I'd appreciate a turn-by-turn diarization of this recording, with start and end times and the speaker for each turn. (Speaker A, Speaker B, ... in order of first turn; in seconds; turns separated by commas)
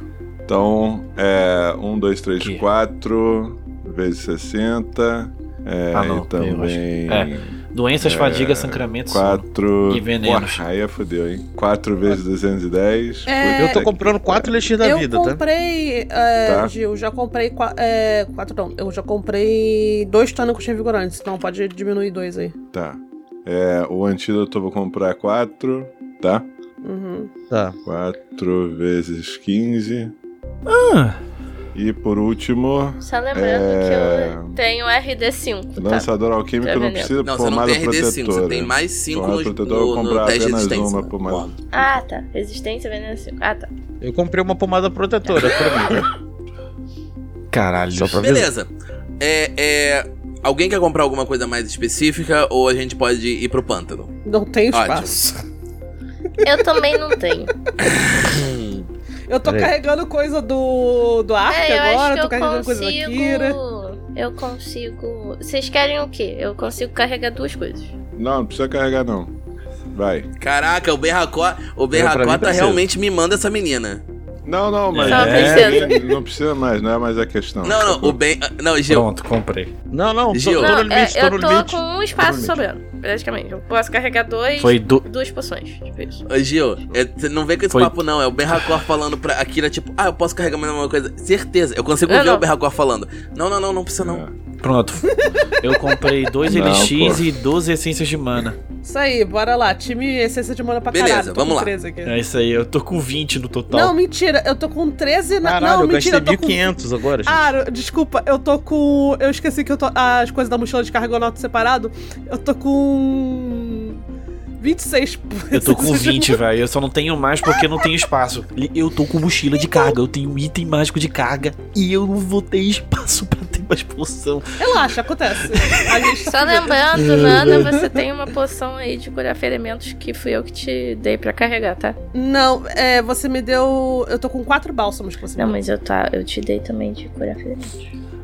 Speaker A: 0.5-14.6, Speaker B: 5.9-10.6, Speaker C: 13.3-13.9, Speaker D: 13.6-15.4, Speaker C: 14.8-22.6, Speaker A: 16.4-16.7, Speaker A: 22.7-26.5, Speaker C: 26.8-27.3, Speaker D: 27.5-27.8, Speaker A: 27.9-30.1, Speaker B: 30.7-31.2, Speaker A: 31.8-34.6, Speaker E: 33.0-36.1, Speaker A: 35.8-41.5, Speaker E: 36.6-37.1, Speaker F: 37.2-41.5, Speaker E: 41.7-43.7, Speaker D: 44.0-46.1, Speaker E: 45.3-45.7, Speaker B: 47.5-48.3, Speaker D: 47.9-48.5, Speaker F: 48.2-48.7, Speaker F: 49.2-54.1, Speaker C: 54.3-55.4, Speaker F: 54.7-55.2, Speaker E: 56.4-57.5, Speaker F: 57.8-58.9, Speaker C: 59.3-63.6, Speaker D: 59.5-59.7, Speaker E: 61.5-67.9, Speaker A: 68.2-69.3, Speaker A: 69.9-70.3, Speaker F: 70.4-74.0, Speaker D: 71.9-72.8, Speaker A: 74.5-78.2, Speaker B: 74.9-75.8, Speaker E: 75.1-75.9, Speaker C: 75.8-76.0, Speaker F: 77.6-79.1, Speaker B: 78.9-79.7, Speaker D: 79.9-82.6, Speaker F: 80.3-80.8, Speaker E: 80.6-86.2, Speaker B: 84.6-85.0, Speaker F: 86.3-94.2, Speaker E: 92.1-92.5, Speaker A: 94.0-94.3, Speaker B: 94.6-98.6, Speaker C: 95.0-96.3, Speaker A: 96.5-97.3, Speaker C: 98.8-102.2, Speaker F: 100.9-101.7, Speaker B: 102.0-104.0, Speaker C: 103.7-106.7, Speaker D: 105.4-107.5, Speaker C: 107.3-114.0, Speaker C: 114.6-116.4, Speaker B: 115.5-124.9, Speaker C: 117.5-117.9, Speaker C: 124.6-128.1, Speaker B: 125.5-126.0, Speaker E: 126.3-132.0, Speaker B: 127.0-127.7, Speaker C: 132.1-135.6, Speaker E: 135.4-137.9